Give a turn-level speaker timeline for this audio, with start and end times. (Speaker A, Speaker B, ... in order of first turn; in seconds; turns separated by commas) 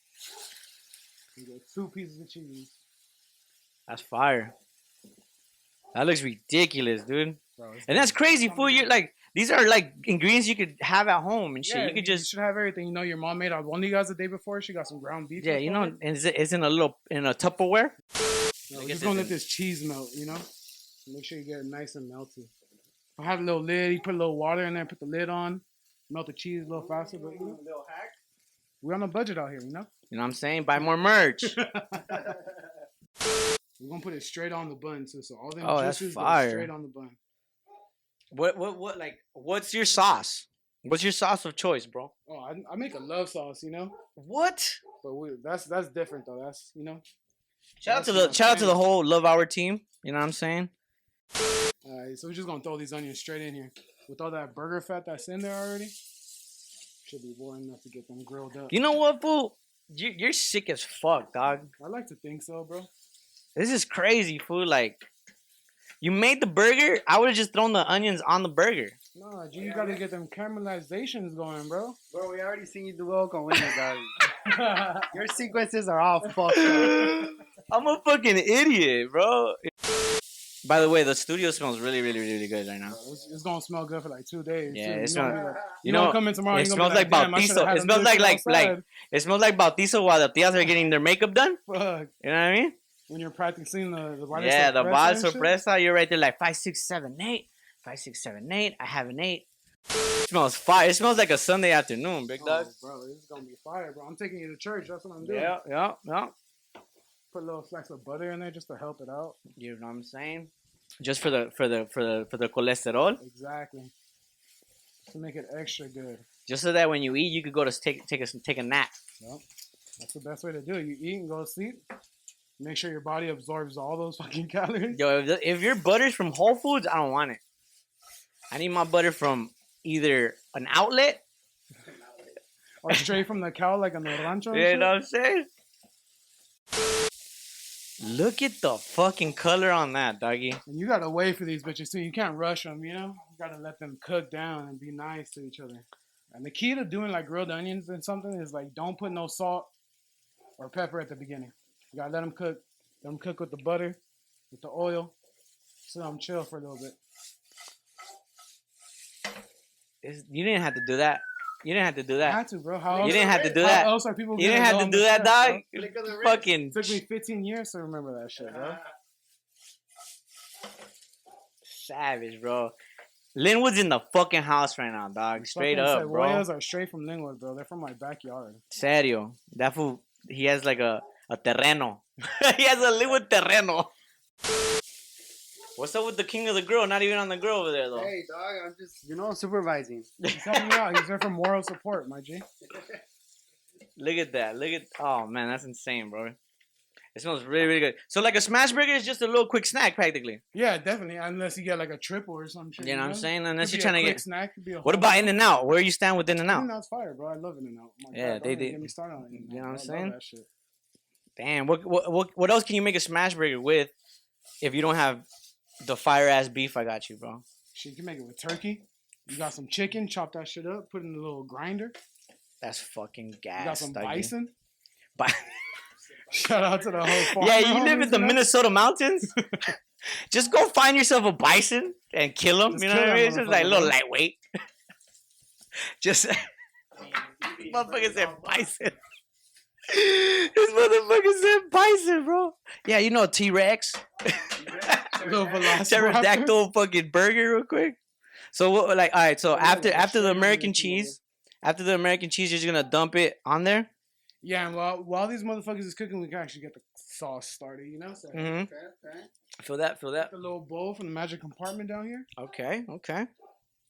Speaker A: 1.4-2.7, Speaker B: 3.9-4.5, Speaker B: 5.9-12.3, Speaker A: 7.6-8.9, Speaker A: 11.6-16.0, Speaker B: 15.4-17.9, Speaker A: 18.7-20.5, Speaker B: 18.7-19.3, Speaker A: 21.1-22.5, Speaker A: 23.2-27.6, Speaker C: 26.7-28.2, Speaker A: 28.8-29.9, Speaker B: 30.1-31.6, Speaker A: 31.4-32.4, Speaker A: 33.8-37.2, Speaker B: 35.6-36.7, Speaker B: 38.3-42.1, Speaker A: 42.3-43.9, Speaker B: 44.1-44.8, Speaker A: 45.0-47.0, Speaker B: 47.8-50.7, Speaker A: 47.8-48.8, Speaker A: 51.8-55.9, Speaker A: 57.0-58.8, Speaker B: 58.7-61.7, Speaker A: 61.8-62.9, Speaker B: 63.5-65.0, Speaker B: 66.0-69.0, Speaker A: 69.1-72.0, Speaker C: 69.6-70.0, Speaker C: 72.1-74.3, Speaker A: 74.3-75.1, Speaker C: 75.1-77.3, Speaker B: 76.5-79.7, Speaker B: 80.6-83.0, Speaker A: 82.9-88.8, Speaker B: 84.7-91.6, Speaker C: 85.3-85.7, Speaker A: 91.7-92.1, Speaker B: 92.2-92.8, Speaker A: 93.1-95.5, Speaker B: 94.3-99.4, Speaker B: 100.2-102.7, Speaker A: 102.4-105.5, Speaker B: 105.2-106.3, Speaker A: 107.3-109.4, Speaker B: 109.5-113.2, Speaker A: 113.2-113.9, Speaker A: 115.1-116.2, Speaker B: 116.5-118.9, Speaker A: 120.0-121.8, Speaker A: 122.6-125.0, Speaker B: 124.9-127.4, Speaker B: 128.5-131.2, Speaker A: 132.8-134.9, Speaker B: 134.5-135.5, Speaker B: 138.0-140.6, Speaker A: 140.7-149.7, Speaker A: 150.6-154.0, Speaker A: 154.5-155.1, Speaker A: 155.8-156.9, Speaker B: 160.0-162.4, Speaker A: 162.2-165.6, Speaker C: 162.9-163.7, Speaker B: 163.0-167.0, Speaker C: 165.7-166.5, Speaker A: 166.7-168.8, Speaker B: 171.6-172.7, Speaker B: 173.3-176.4, Speaker A: 175.4-178.6, Speaker B: 178.7-183.9, Speaker B: 185.8-188.1, Speaker C: 187.9-190.1, Speaker B: 190.2-191.0, Speaker A: 190.3-192.4, Speaker B: 194.0-196.3, Speaker B: 197.1-200.4, Speaker A: 200.5-205.3, Speaker B: 202.8-204.2, Speaker B: 204.8-206.7, Speaker A: 206.5-210.5, Speaker B: 208.1-210.1, Speaker B: 211.4-213.9, Speaker B: 214.6-215.2, Speaker B: 215.8-217.4, Speaker A: 217.7-221.9, Speaker B: 222.6-224.3, Speaker A: 223.6-224.5, Speaker B: 225.2-225.4, Speaker A: 226.3-228.4, Speaker B: 227.0-229.4, Speaker A: 229.3-229.7, Speaker B: 230.3-234.4, Speaker A: 232.7-233.9, Speaker B: 236.0-236.5, Speaker C: 237.4-238.6, Speaker B: 237.5-238.9, Speaker B: 239.9-248.0, Speaker C: 244.6-245.6, Speaker A: 245.1-246.5, Speaker B: 248.5-253.9, Speaker A: 249.5-251.2, Speaker A: 254.4-258.5, Speaker B: 258.3-258.7, Speaker C: 258.4-259.3, Speaker B: 259.6-260.3, Speaker A: 260.2-262.3, Speaker B: 262.4-263.3